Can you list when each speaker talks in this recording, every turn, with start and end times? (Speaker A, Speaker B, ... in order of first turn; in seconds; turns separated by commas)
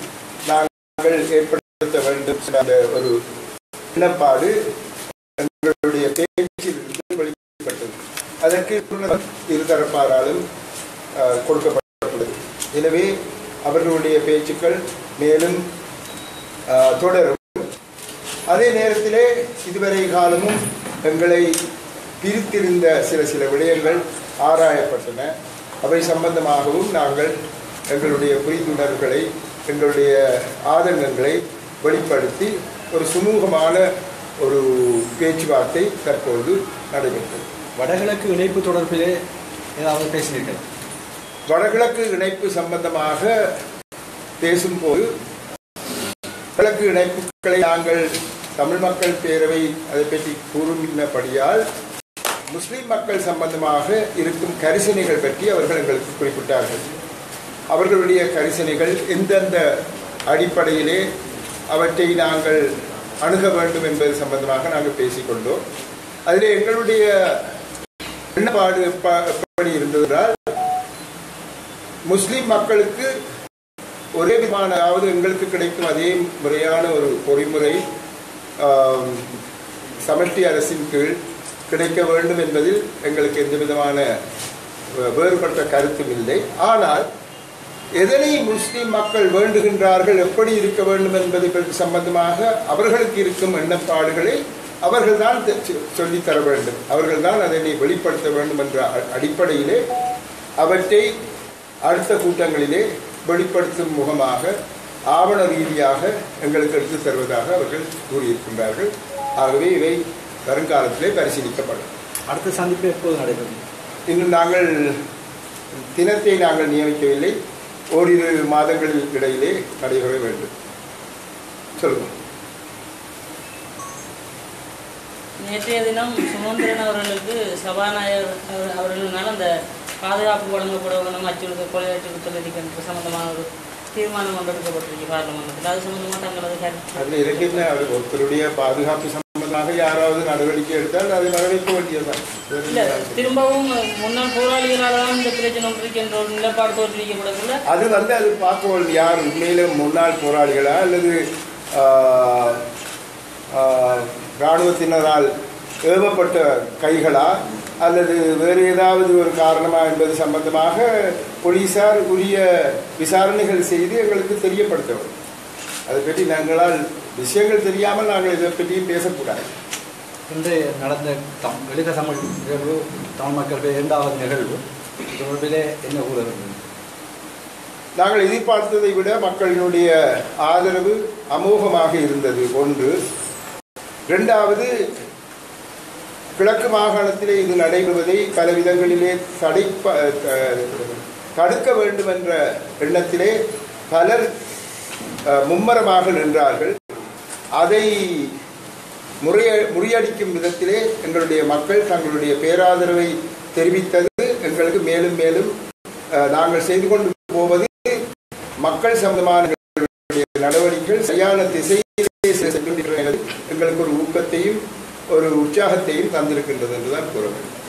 Speaker A: 0.5-3.2, Speaker A: 3.9-4.5, Speaker A: 5.4-10.4, Speaker A: 11.2-13.1, Speaker A: 13.6-15.6, Speaker A: 16.7-17.7, Speaker A: 18.5-21.6, Speaker A: 22.2-27.3, Speaker A: 27.9-33.9, Speaker A: 34.4-37.4, Speaker B: 37.8-39.2, Speaker B: 39.8-40.6, Speaker A: 41.5-43.4, Speaker A: 44.4-45.1, Speaker A: 46.5-51.6, Speaker A: 52.5-56.9, Speaker A: 57.7-59.7, Speaker A: 60.3-61.0, Speaker A: 61.7-62.6, Speaker A: 63.2-65.6, Speaker A: 66.3-67.5, Speaker A: 68.3-70.4, Speaker A: 72.0-73.1, Speaker A: 74.1-77.8, Speaker A: 78.6-79.3, Speaker A: 80.0-81.2, Speaker A: 81.7-84.1, Speaker A: 85.0-87.0, Speaker A: 88.0-99.8, Speaker A: 100.6-101.1, Speaker A: 101.8-104.5, Speaker A: 105.1-111.9, Speaker B: 112.3-113.6, Speaker A: 114.1-115.0, Speaker A: 115.7-117.3, Speaker A: 117.9-120.5, Speaker A: 121.8-122.1, Speaker C: 125.4-129.5, Speaker C: 130.0-137.7, Speaker A: 136.9-143.3, Speaker C: 142.7-147.6, Speaker A: 147.7-152.6, Speaker A: 153.5-155.3, Speaker A: 155.8-165.1, Speaker A: 165.9-169.5, Speaker B: 170.3-176.6, Speaker A: 178.0-182.9, Speaker A: 184.1-184.9, Speaker A: 186.3-193.4, Speaker A: 193.9-194.3, Speaker A: 195.3-196.8, Speaker A: 197.6-198.3, Speaker A: 199.2-205.5, Speaker A: 206.1-208.0, Speaker A: 208.6-214.6, Speaker A: 215.1-217.5